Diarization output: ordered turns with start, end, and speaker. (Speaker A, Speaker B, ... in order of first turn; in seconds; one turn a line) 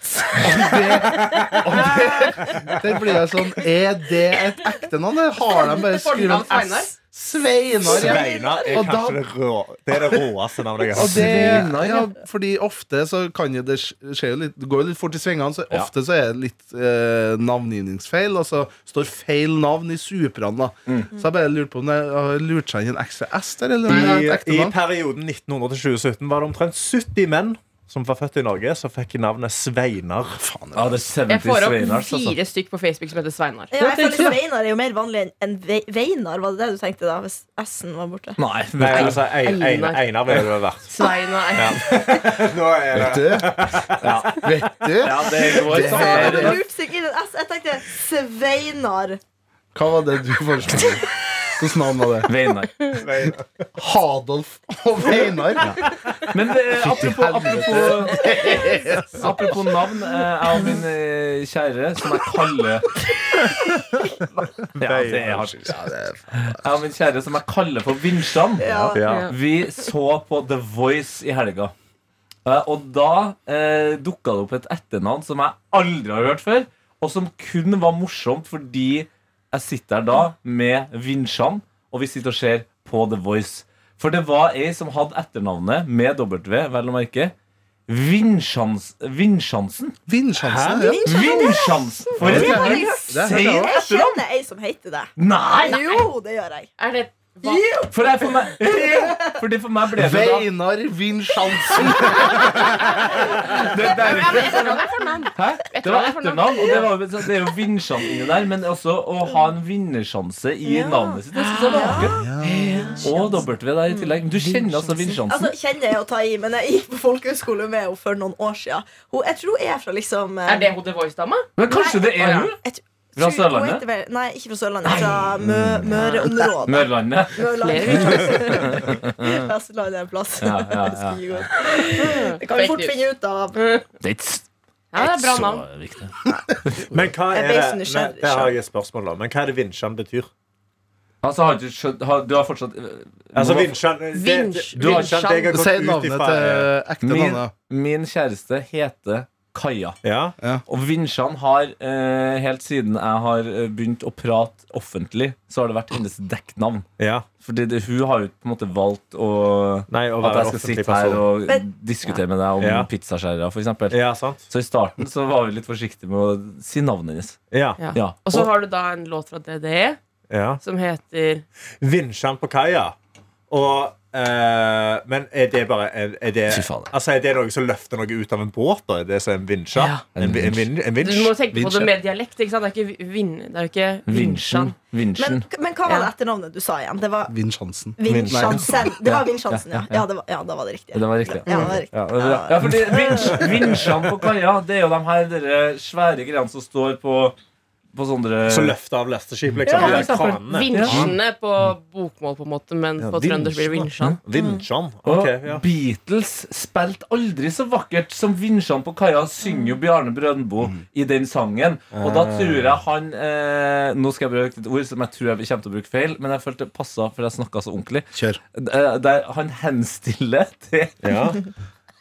Speaker A: 0.3-9.2
Speaker B: 1.2-1.7
Speaker B: 2.4-2.7
Speaker C: 5.7-6.9
Speaker B: 7.9-11.7
Speaker A: 9.9-10.2
Speaker A: 10.9-24.8
Speaker D: 10.9-12.2
Speaker B: 23.9-30.4
Speaker A: 30.4-31.0
Speaker D: 30.7-32.4
Speaker C: 31.3-34.3
Speaker E: 33.7-38.4
Speaker D: 38.4-39.2
Speaker B: 38.8-40.9
Speaker C: 39.3-40.0
Speaker C: 40.9-41.8
Speaker B: 41.5-44.4
Speaker A: 42.9-46.6
Speaker D: 44.0-46.6
Speaker E: 45.8-49.2
Speaker A: 49.7-52.3
Speaker D: 52.3-52.8
Speaker B: 52.9-53.7
Speaker A: 53.8-55.8
Speaker D: 56.3-58.5
Speaker A: 56.7-59.4
Speaker D: 59.1-62.9
Speaker B: 63.5-65.5
Speaker D: 64.8-65.8
Speaker A: 65.4-66.7
Speaker D: 66.5-68.7
Speaker E: 68.6-69.0
Speaker B: 68.9-69.3
Speaker C: 69.0-69.3
Speaker D: 69.2-71.7
Speaker D: 72.4-87.3
Speaker D: 87.9-90.0
Speaker A: 90.1-91.1
Speaker B: 90.4-91.1
Speaker E: 90.8-96.7
Speaker D: 91.0-94.2
Speaker B: 92.2-92.6
Speaker A: 92.2-93.7
Speaker D: 95.2-96.0
Speaker C: 95.7-96.0
Speaker C: 96.8-97.8
Speaker E: 97.4-97.9
Speaker D: 97.9-100.5
Speaker E: 98.7-99.3
Speaker A: 100.0-102.7
Speaker D: 103.5-104.8
Speaker C: 103.7-106.8
Speaker E: 104.3-104.8
Speaker D: 105.3-112.2
Speaker E: 110.6-112.2
Speaker C: 111.3-113.1
Speaker A: 112.1-112.8
Speaker E: 112.7-120.7
Speaker D: 113.0-115.5
Speaker C: 120.4-121.5
Speaker D: 121.6-122.6
Speaker E: 121.7-133.6
Speaker C: 122.1-122.5
Speaker D: 123.2-123.8
Speaker D: 124.8-127.9
Speaker C: 125.9-126.3
Speaker C: 127.6-128.4
Speaker D: 128.5-129.5
Speaker D: 130.4-131.5
Speaker C: 131.6-132.9
Speaker C: 133.5-133.8
Speaker D: 134.0-134.4
Speaker C: 134.9-135.7
Speaker D: 134.9-136.2
Speaker A: 136.3-136.6
Speaker B: 136.8-140.3
Speaker E: 137.3-138.6
Speaker D: 141.2-143.8
Speaker B: 143.3-146.7
Speaker C: 144.1-145.6
Speaker D: 144.8-145.2
Speaker A: 145.5-147.5
Speaker D: 147.0-150.0
Speaker B: 150.0-150.3
Speaker D: 150.7-156.9
Speaker B: 157.0-157.3
Speaker D: 157.4-167.4
Speaker B: 159.9-161.2
Speaker B: 162.6-162.9
Speaker B: 163.9-164.4
Speaker B: 167.5-167.8
Speaker C: 167.8-170.0
Speaker D: 167.9-168.5
Speaker B: 170.3-170.6
Speaker C: 170.6-171.4
Speaker B: 171.8-172.9
Speaker B: 173.5-181.3
Speaker D: 176.5-176.9
Speaker C: 179.8-180.0
Speaker D: 180.1-180.6
Speaker C: 181.0-184.7
Speaker A: 181.5-181.9
Speaker D: 184.1-185.4
Speaker E: 185.2-187.3
Speaker C: 185.8-186.1
Speaker A: 187.3-188.8
Speaker E: 188.0-193.4
Speaker B: 188.1-189.0
Speaker D: 189.1-190.1
Speaker D: 190.9-197.3
Speaker C: 191.5-191.7
Speaker B: 193.2-194.0
Speaker D: 197.9-198.8
Speaker B: 198.5-201.1
Speaker D: 199.6-201.1
Speaker C: 199.7-204.2
Speaker B: 203.0-205.6
Speaker E: 204.3-204.6
Speaker D: 205.0-221.2
Speaker B: 211.9-212.6
Speaker A: 218.1-218.4
Speaker B: 221.0-221.4